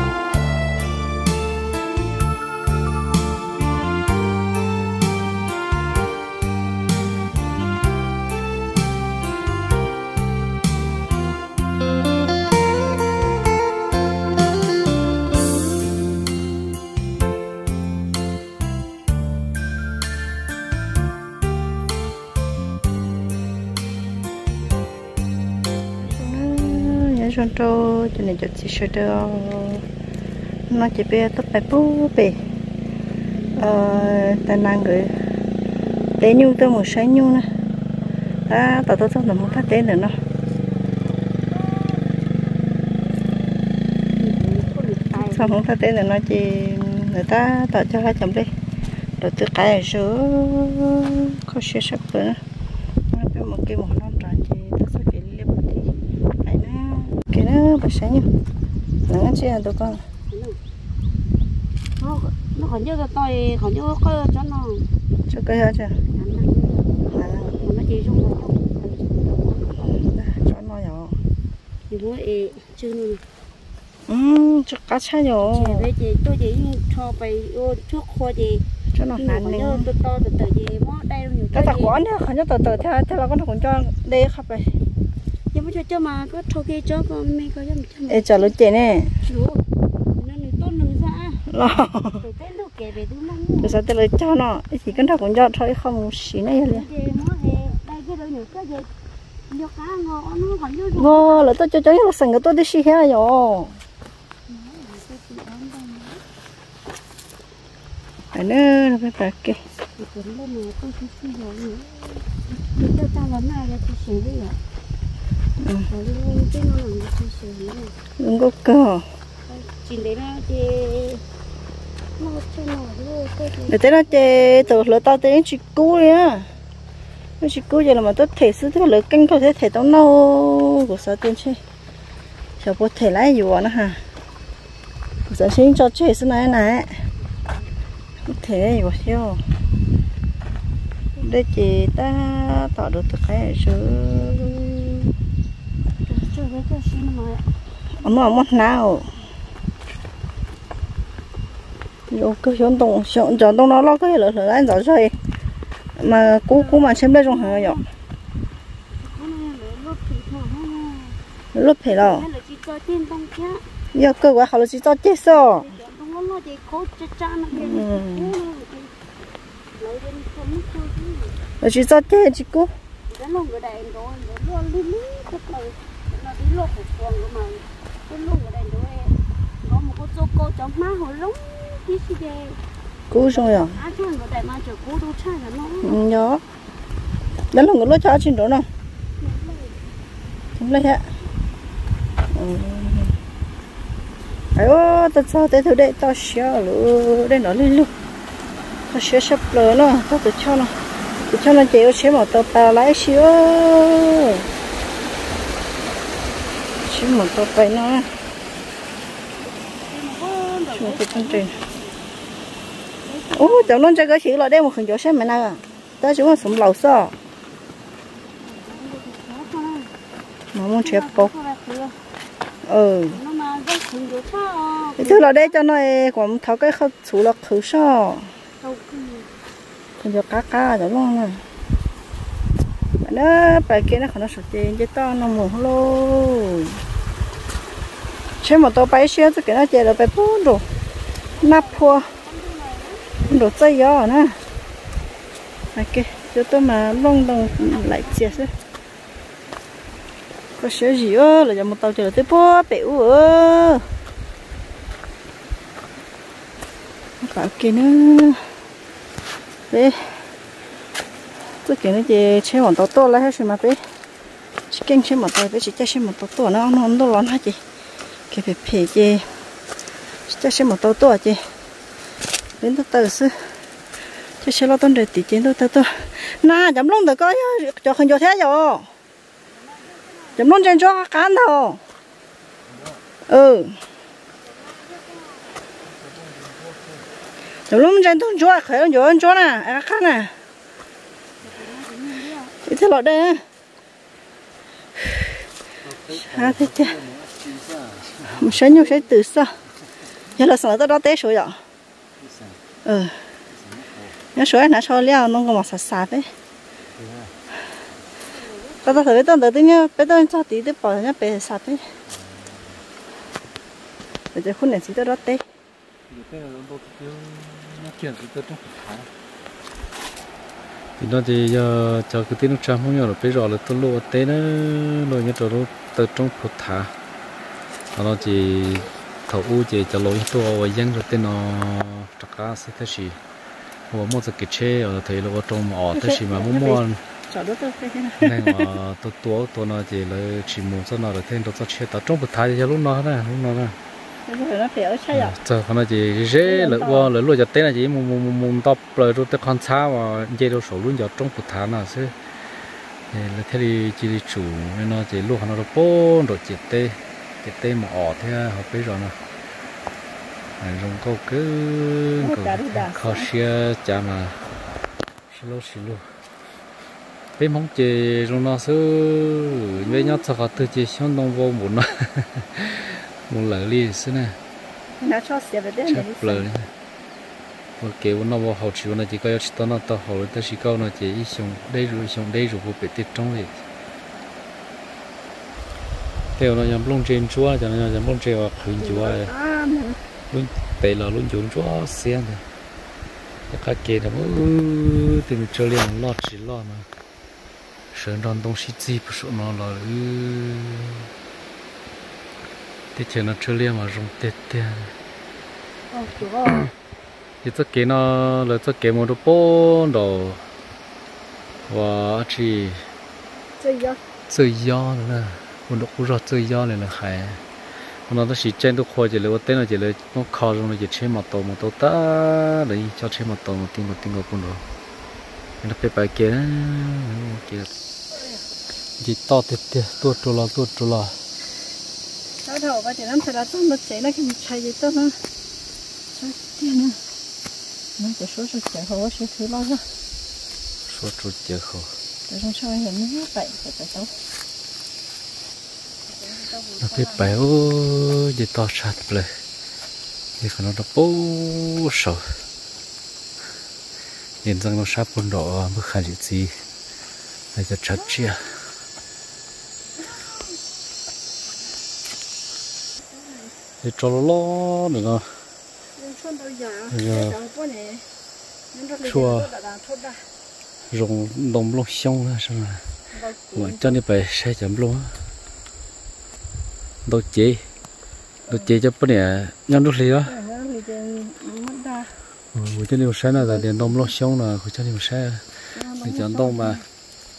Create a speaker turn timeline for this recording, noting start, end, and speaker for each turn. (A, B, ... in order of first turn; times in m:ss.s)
0:26.0-0:29.8 A
0:30.7-0:32.4 A
0:33.4-0:33.8 B
0:33.6-0:35.2 A
0:35.8-0:37.1 B
0:36.2-0:37.5 A
0:38.0-0:38.4 B
0:38.5-0:40.2 A
0:41.3-0:42.2 B
0:44.1-0:45.6 B
0:45.1-0:48.5 A
0:49.2-0:52.4 A
0:53.1-0:58.3 A
0:59.1-1:00.0 A
1:00.3-1:00.6 B
1:02.0-1:04.9 B
1:05.3-1:06.0 A
1:06.1-1:07.0 B
1:07.1-1:07.6 A
1:07.5-1:10.0 B
1:09.8-1:11.2 A
1:11.9-1:13.2 B
1:14.1-1:15.9 A
1:15.4-1:18.6 B
1:18.9-1:19.9 A
1:19.2-1:22.0 B
1:21.5-1:24.8 A
1:25.5-1:28.5 B
1:28.1-1:29.1 A
1:29.2-1:29.6 B
1:30.1-1:31.5 B
1:31.5-1:32.2 A
1:32.2-1:33.8 B
1:33.6-1:36.8 A
1:36.6-1:38.9 B
1:39.5-1:41.5 B
1:40.9-1:43.8 A
1:44.5-1:46.2 B
1:48.3-1:49.6 A
1:50.0-1:54.6 B
1:55.6-1:55.9 A
1:55.9-1:57.9 B
1:58.2-1:59.0 A
1:59.5-2:01.2 B
2:02.2-2:05.1 B
2:03.6-2:06.5 A
2:07.4-2:11.6 A
2:12.6-2:14.0 A
2:15.3-2:16.9 A
2:18.2-2:19.4 A
2:21.2-2:25.1 A
2:26.0-2:27.5 B
2:28.0-2:29.1 A
2:32.1-2:35.2 A
2:36.0-2:37.8 A
2:36.5-2:37.8 B
2:39.0-2:41.2 B
2:41.5-2:42.2 A
2:41.8-2:43.6 B
2:43.9-2:45.6 A
2:45.3-2:49.0 B
2:47.5-2:48.3 A
2:49.7-2:51.4 B
2:51.6-2:52.7 A
2:53.1-3:02.6 B
3:03.1-3:03.8 A
3:03.2-3:06.2 B
3:05.8-3:06.4 A
3:07.5-3:08.7 A
3:09.2-3:09.8 B
3:10.6-3:11.1 A
3:12.3-3:13.1 A
3:14.5-3:17.9 A
3:18.9-3:20.8 A
3:21.3-3:24.5 A
3:26.8-3:28.1 A
3:29.4-3:32.1 B
3:30.7-3:31.5 A
3:33.0-3:34.0 B
3:33.3-3:37.2 A
3:38.4-3:39.9 B
3:40.5-3:41.3 A
3:40.8-3:42.0 B
3:42.6-3:43.2 A
3:43.1-3:45.6 B
3:45.0-3:48.3 A
3:48.6-3:49.3 B
3:50.0-3:51.4 A
3:53.0-3:56.8 A
3:58.4-4:00.7 A
4:01.2-4:03.5 B
4:01.4-4:02.1 A
4:03.3-4:04.4 A
4:05.7-4:08.5 A
4:06.9-4:08.6 B
4:10.6-4:13.9 A
4:17.2-4:18.5 A
4:19.7-4:20.3 A
4:21.6-4:23.8 A
4:24.7-4:27.6 A
4:28.3-4:29.3 A
4:30.2-4:31.5 A
4:32.6-4:33.5 A
4:34.4-4:38.9 A
4:39.4-4:40.8 B
4:40.4-4:41.8 A
4:42.6-4:43.0 C
4:43.3-4:43.8 A
4:44.4-4:45.6 B
4:45.8-4:47.1 C
4:47.7-4:50.4 A
4:51.4-4:52.5 B
4:52.6-4:53.4 A
4:55.8-4:58.9 C
4:56.1-4:56.9 A
4:58.4-4:59.6 A
4:58.8-4:59.1 B
5:00.4-5:01.6 A
5:02.2-5:02.6 C
5:02.8-5:03.2 A
5:03.4-5:04.2 C
5:04.3-5:06.3 A
5:06.9-5:07.3 C
5:08.2-5:09.2 B
5:08.8-5:11.9 A
5:12.0-5:12.8 C
5:14.3-5:15.4 A
5:16.1-5:19.1 C
5:21.0-5:26.9 C
5:27.9-5:33.2 C
5:33.9-5:37.0 C
5:35.9-5:38.7 A
5:38.2-5:43.8 C
5:44.2-5:45.4 A
5:45.1-5:52.2 C
5:46.4-5:47.1 A
5:53.1-5:59.2 C
6:00.6-6:04.4 C
6:02.2-6:03.3 A
6:05.3-6:06.2 C
6:07.4-6:14.4 C
6:15.0-6:16.5 A
6:15.8-6:16.7 C
6:17.8-6:23.6 C
6:26.4-6:29.3 C
6:28.8-6:30.0 A
6:30.3-6:32.4 C
6:33.5-6:36.9 C
6:37.9-6:41.1 C
6:42.9-6:44.9 C
6:46.0-6:46.7 B
6:47.4-6:50.5 C
6:51.7-6:52.9 C
6:53.6-6:54.0 A
6:54.3-7:04.6 C
7:05.6-7:07.7 C
7:09.0-7:11.2 C
7:12.4-7:15.2 A
7:16.1-7:17.0 A
7:18.0-7:19.9 A
7:20.9-7:21.9 C
7:22.3-7:24.1 A
7:26.1-7:27.4 A
7:26.8-7:29.4 C
7:30.4-7:32.4 C
7:34.4-7:36.6 C
7:37.5-7:38.6 C
7:40.1-7:40.5 A
7:43.8-7:45.4 C
7:45.9-7:48.0 A
7:46.9-7:47.4 C
7:48.7-7:50.3 A
7:49.0-7:49.5 C
7:50.9-7:52.9 C
7:53.1-7:54.0 A
7:53.5-7:55.2 C
7:57.0-7:57.7 C
7:58.5-7:58.8 A
7:58.5-8:00.4 C
8:00.2-8:02.2 A
8:02.5-8:06.8 C
8:03.3-8:04.1 A
8:05.7-8:06.8 A